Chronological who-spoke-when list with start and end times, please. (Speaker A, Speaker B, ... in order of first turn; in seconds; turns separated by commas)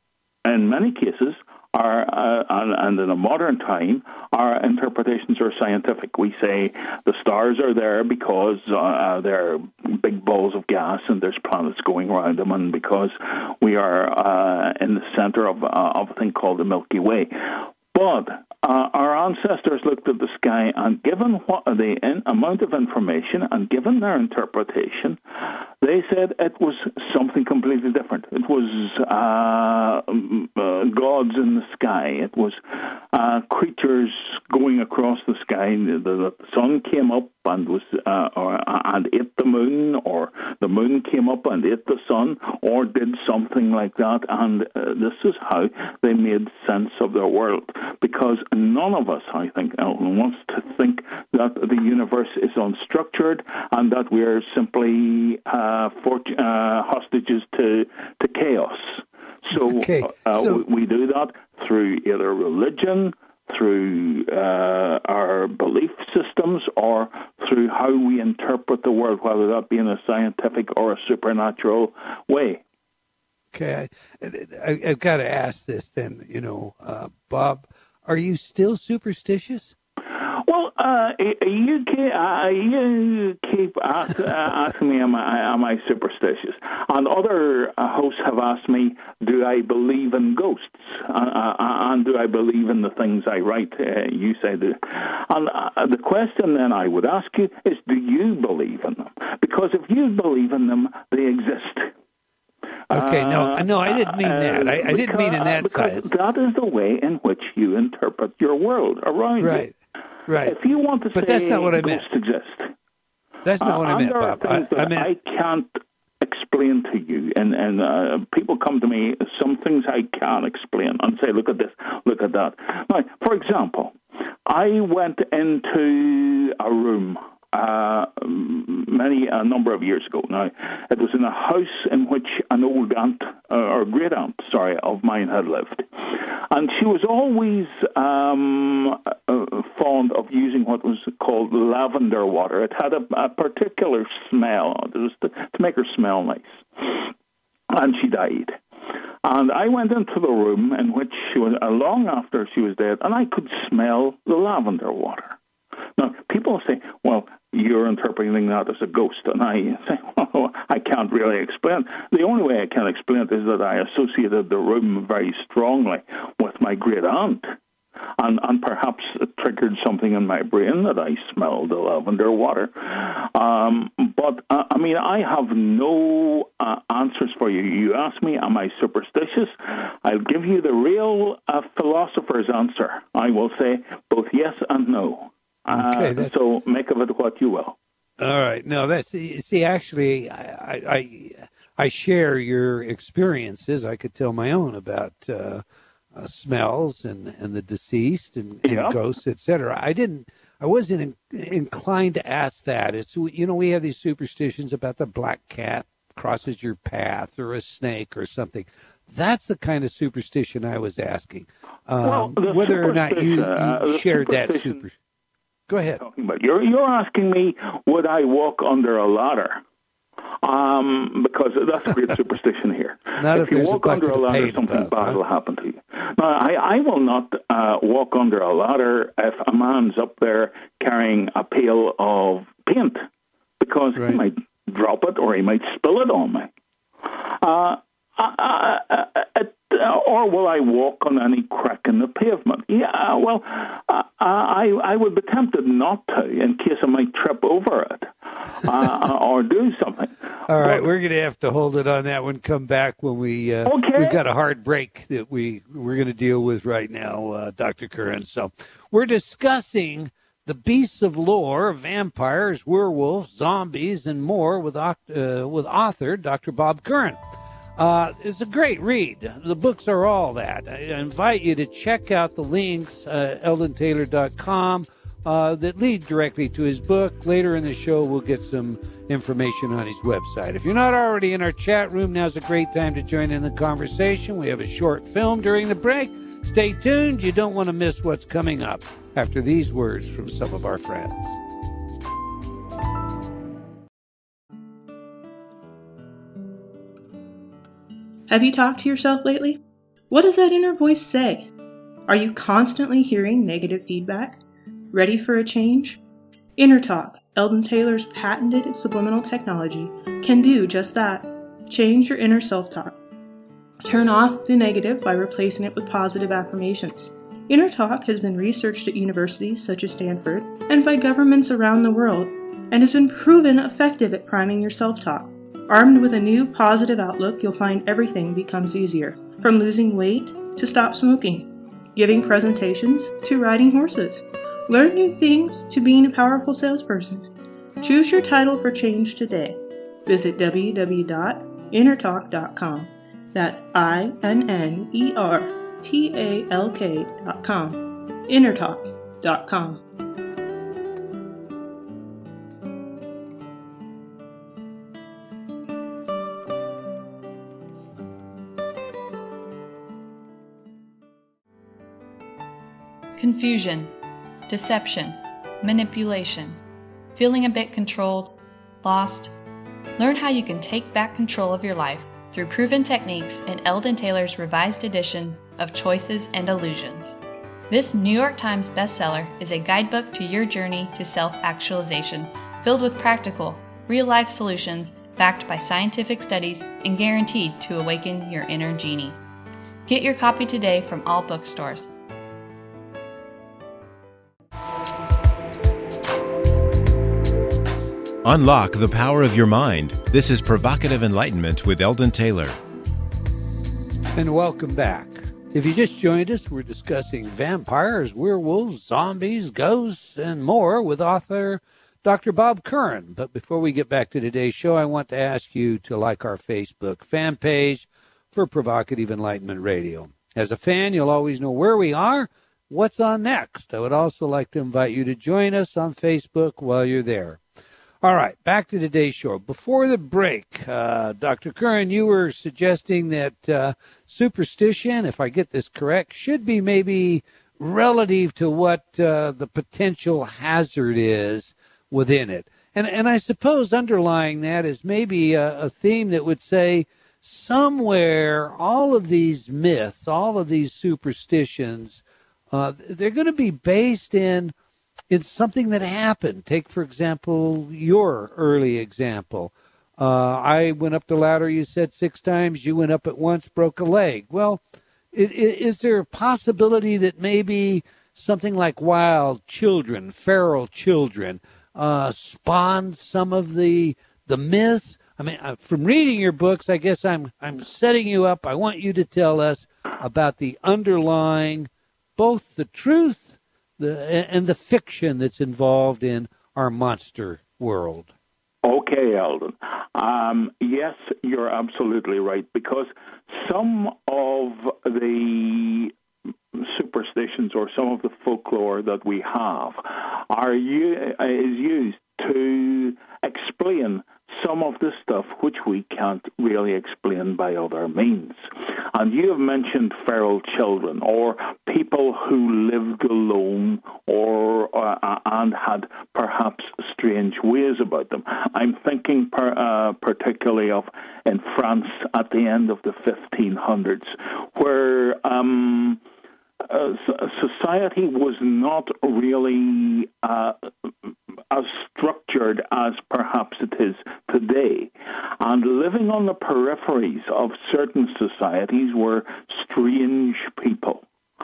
Speaker A: 0.5-72.6, Speaker B: 59.5-60.6, Speaker B: 73.5-79.8, Speaker A: 80.2-101.9, Speaker A: 102.9-109.7, Speaker B: 102.9-106.1, Speaker B: 109.4-109.8, Speaker B: 110.3-110.6, Speaker A: 110.5-112.7, Speaker B: 111.1-112.0, Speaker B: 113.4-115.1, Speaker A: 113.6-147.1, Speaker A: 147.7-148.6, Speaker A: 149.2-155.4, Speaker A: 156.0-167.5, Speaker A: 168.2-187.8, Speaker B: 185.7-186.3, Speaker B: 188.2-195.6, Speaker B: 196.1-214.9, Speaker A: 198.6-199.0, Speaker A: 212.0-214.8, Speaker B: 215.7-216.0, Speaker A: 216.0-219.6, Speaker A: 220.4-233.1, Speaker B: 223.2-225.2, Speaker A: 233.6-236.5, Speaker A: 237.1-250.9, Speaker B: 250.5-267.2, Speaker A: 253.7-254.2, Speaker B: 267.8-291.4, Speaker C: 298.3-301.5, Speaker C: 302.1-304.4, Speaker C: 304.9-306.0, Speaker C: 306.6-313.0, Speaker C: 313.8-337.3, Speaker C: 337.8-349.8, Speaker D: 363.2-363.9, Speaker D: 364.5-366.6, Speaker D: 367.1-369.3, Speaker D: 370.0-377.2, Speaker D: 377.7-389.2, Speaker D: 389.9-391.9, Speaker E: 398.2-402.6, Speaker B: 404.1-427.4, Speaker B: 428.0-454.6, Speaker B: 455.1-488.1, Speaker A: 488.6-495.9, Speaker A: 496.5-526.0, Speaker A: 526.6-530.9, Speaker A: 531.5-541.1